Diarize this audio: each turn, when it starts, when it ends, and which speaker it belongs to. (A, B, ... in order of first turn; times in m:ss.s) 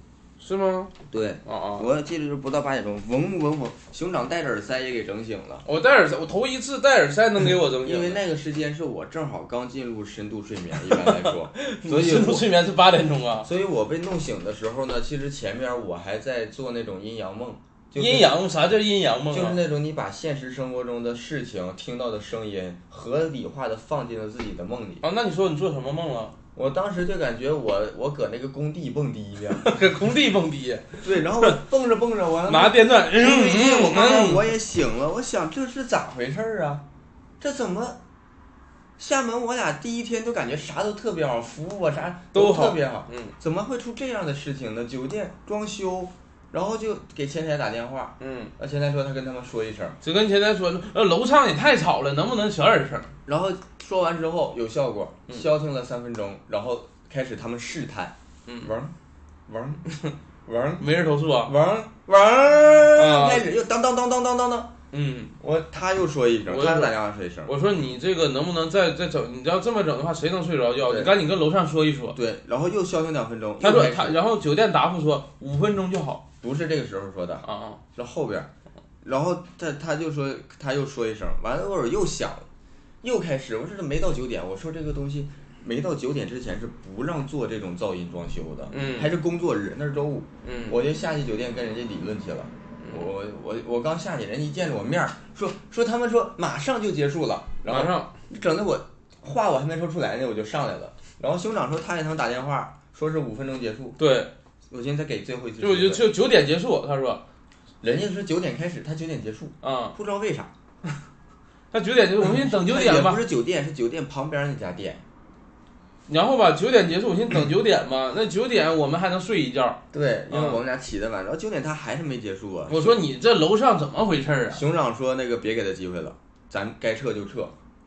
0:00.4-0:00.9 A
0:01.1-0:05.6 B
0:01.4-0:01.9 A
0:05.6-0:08.2 A
0:07.8-0:12.5 B
0:10.9-0:13.5 A
0:13.4-0:18.3 B
0:17.9-0:19.6 A
0:19.3-0:25.0 B
0:25.0-0:26.4 A
0:26.5-0:29.8 B
0:29.6-0:31.6 A
0:31.0-0:36.8 B
0:32.5-0:34.5 A
0:37.4-0:38.0 B
0:39.0-0:50.0 B
0:42.3-0:43.3 A
0:48.2-0:48.5 A
0:50.0-0:53.1 A
0:53.2-0:58.9 B
0:58.4-0:58.7 A
0:59.5-0:59.8 B
1:00.4-1:00.8 B
1:00.8-1:01.5 A
1:01.4-1:04.7 B
1:02.9-1:03.4 A
1:04.9-1:05.4 A
1:05.4-1:07.5 B
1:06.5-1:06.9 A
1:07.4-1:12.2 A
1:10.9-1:11.1 B
1:12.1-1:14.2 B
1:13.6-1:16.2 A
1:16.4-1:18.5 B
1:17.4-1:17.8 A
1:19.0-1:22.4 B
1:23.0-1:44.0 B
1:28.7-1:29.1 A
1:30.4-1:30.8 A
1:32.8-1:33.1 A
1:37.7-1:38.1 A
1:44.0-1:44.3 A
1:44.7-1:46.0 B
1:45.6-1:47.2 A
1:47.8-1:50.5 B
1:49.6-1:50.0 A
1:51.7-1:53.2 A
1:52.2-1:55.0 B
1:56.1-2:00.6 A
1:59.9-2:03.0 B
2:02.7-2:04.6 A
2:04.5-2:07.5 B